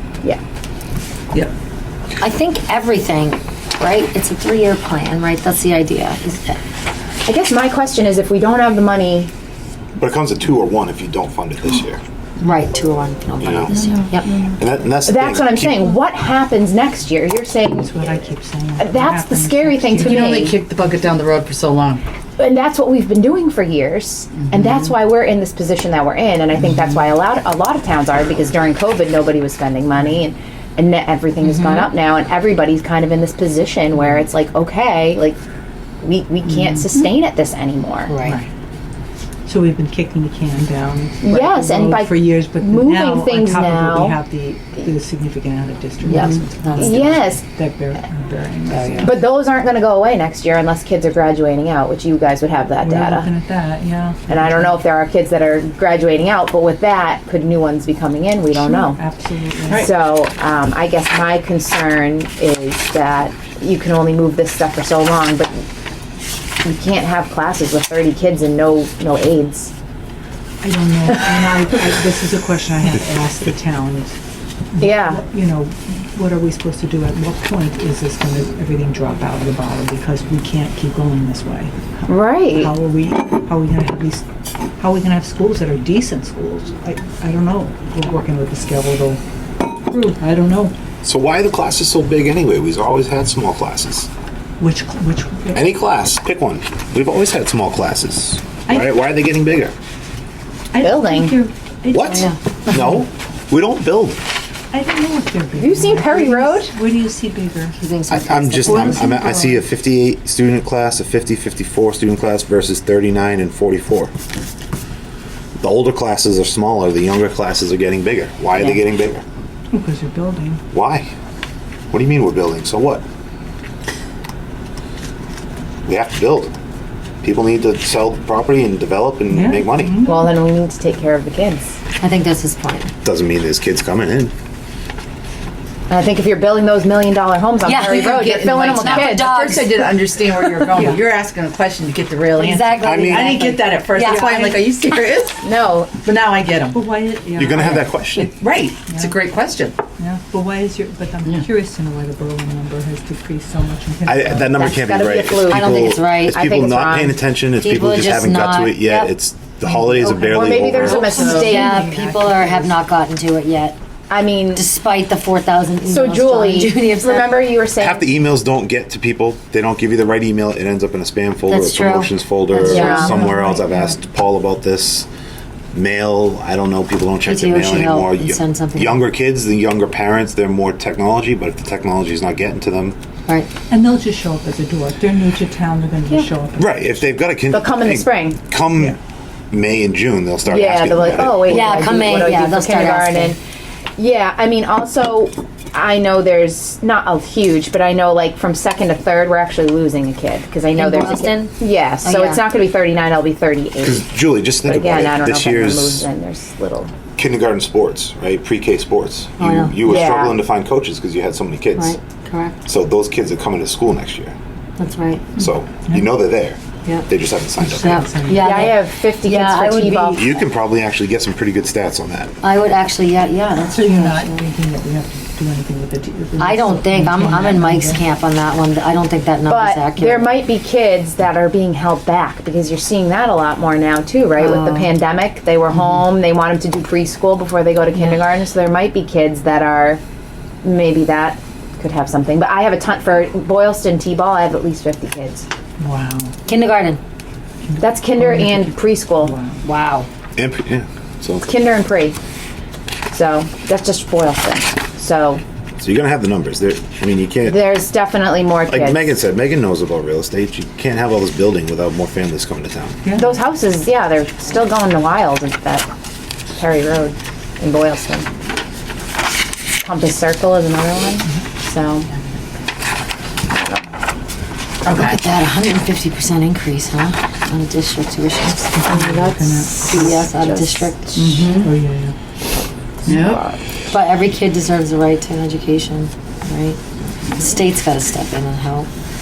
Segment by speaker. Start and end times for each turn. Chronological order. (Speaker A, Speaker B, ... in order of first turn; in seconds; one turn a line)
Speaker A: 2.2-6.6
Speaker B: 7.2-9.3
Speaker C: 10.0-12.0
Speaker A: 12.4-14.3
Speaker C: 13.4-13.8
Speaker D: 13.7-14.5
Speaker C: 14.6-15.9
Speaker B: 15.1-18.3
Speaker D: 17.7-20.5
Speaker B: 18.8-20.6
Speaker E: 20.0-22.0
Speaker B: 22.4-35.4
Speaker E: 24.4-24.9
Speaker E: 26.7-27.0
Speaker A: 31.4-31.9
Speaker B: 36.0-38.1
Speaker A: 38.1-38.4
Speaker D: 38.2-38.5
Speaker D: 39.5-49.2
Speaker B: 41.2-44.2
Speaker A: 46.1-47.0
Speaker B: 46.8-47.4
Speaker A: 48.7-49.1
Speaker B: 49.0-53.3
Speaker D: 52.8-54.8
Speaker B: 54.3-59.0
Speaker D: 58.5-59.9
Speaker B: 59.7-65.6
Speaker B: 66.6-69.7
Speaker D: 70.6-74.2
Speaker D: 74.7-84.2
Speaker B: 74.8-75.2
Speaker B: 82.1-82.7
Speaker D: 84.8-89.2
Speaker D: 89.9-90.7
Speaker C: 91.0-94.1
Speaker D: 94.6-95.7
Speaker C: 95.5-99.7
Speaker D: 98.7-99.0
Speaker D: 100.7-103.0
Speaker B: 100.8-101.4
Speaker C: 101.9-104.2
Speaker A: 102.0-102.4
Speaker D: 104.7-107.8
Speaker B: 105.6-106.7
Speaker A: 107.8-109.0
Speaker C: 108.1-114.1
Speaker D: 108.6-109.6
Speaker C: 115.6-119.2
Speaker A: 118.5-118.8
Speaker D: 119.7-120.6
Speaker C: 120.7-121.1
Speaker C: 121.9-123.0
Speaker C: 125.9-126.5
Speaker C: 127.2-130.1
Speaker D: 129.3-130.3
Speaker B: 130.0-131.8
Speaker A: 132.0-132.9
Speaker C: 133.1-134.3
Speaker B: 135.9-139.5
Speaker A: 137.6-139.7
Speaker E: 137.8-146.8
Speaker D: 140.7-141.1
Speaker A: 142.4-144.5
Speaker C: 142.8-143.5
Speaker D: 144.0-144.7
Speaker B: 145.4-146.0
Speaker D: 146.7-148.0
Speaker C: 147.4-148.3
Speaker E: 148.2-149.8
Speaker D: 150.0-154.6
Speaker C: 154.1-161.2
Speaker B: 154.5-157.2
Speaker A: 155.5-156.4
Speaker A: 157.6-159.2
Speaker A: 159.8-160.1
Speaker B: 160.2-161.8
Speaker E: 160.8-161.6
Speaker A: 160.9-163.8
Speaker D: 161.1-162.8
Speaker B: 164.1-164.7
Speaker A: 164.5-167.5
Speaker B: 165.9-168.2
Speaker C: 167.8-175.1
Speaker A: 171.5-173.2
Speaker D: 172.6-174.0
Speaker B: 172.6-173.2
Speaker C: 175.7-183.0
Speaker A: 177.2-179.0
Speaker D: 183.7-187.0
Speaker C: 186.6-189.0
Speaker B: 187.5-188.4
Speaker C: 189.5-192.0
Speaker B: 190.4-193.4
Speaker A: 191.3-193.3
Speaker B: 194.0-204.0
Speaker A: 200.8-202.4
Speaker C: 203.8-206.1
Speaker B: 204.6-206.9
Speaker C: 207.2-212.0
Speaker A: 209.4-210.2
Speaker B: 209.8-210.4
Speaker A: 211.8-212.6
Speaker C: 212.7-214.3
Speaker A: 214.8-215.4
Speaker C: 215.4-218.1
Speaker D: 217.6-218.7
Speaker A: 217.7-220.2
Speaker B: 218.4-220.5
Speaker C: 220.2-222.3
Speaker A: 222.4-224.4
Speaker D: 223.7-228.0
Speaker A: 226.4-230.3
Speaker B: 229.5-240.0
Speaker A: 234.4-234.9
Speaker B: 240.6-245.5
Speaker D: 245.8-246.3
Speaker A: 246.5-247.0
Speaker D: 247.7-249.6
Speaker B: 247.8-249.4
Speaker A: 249.6-250.1
Speaker C: 250.4-251.5
Speaker B: 251.5-252.2
Speaker B: 253.1-255.4
Speaker C: 255.8-257.7
Speaker B: 257.4-259.1
Speaker C: 258.7-263.0
Speaker D: 263.0-263.5
Speaker B: 263.1-265.9
Speaker B: 266.6-268.3
Speaker B: 269.8-272.1
Speaker B: 273.5-273.8
Speaker E: 274.9-275.2
Speaker A: 274.9-278.9
Speaker D: 278.7-280.1
Speaker B: 278.9-281.6
Speaker A: 279.8-281.2
Speaker E: 281.1-281.7
Speaker D: 281.6-282.1
Speaker E: 283.1-283.5
Speaker B: 283.1-283.6
Speaker A: 283.9-286.8
Speaker A: 287.3-288.9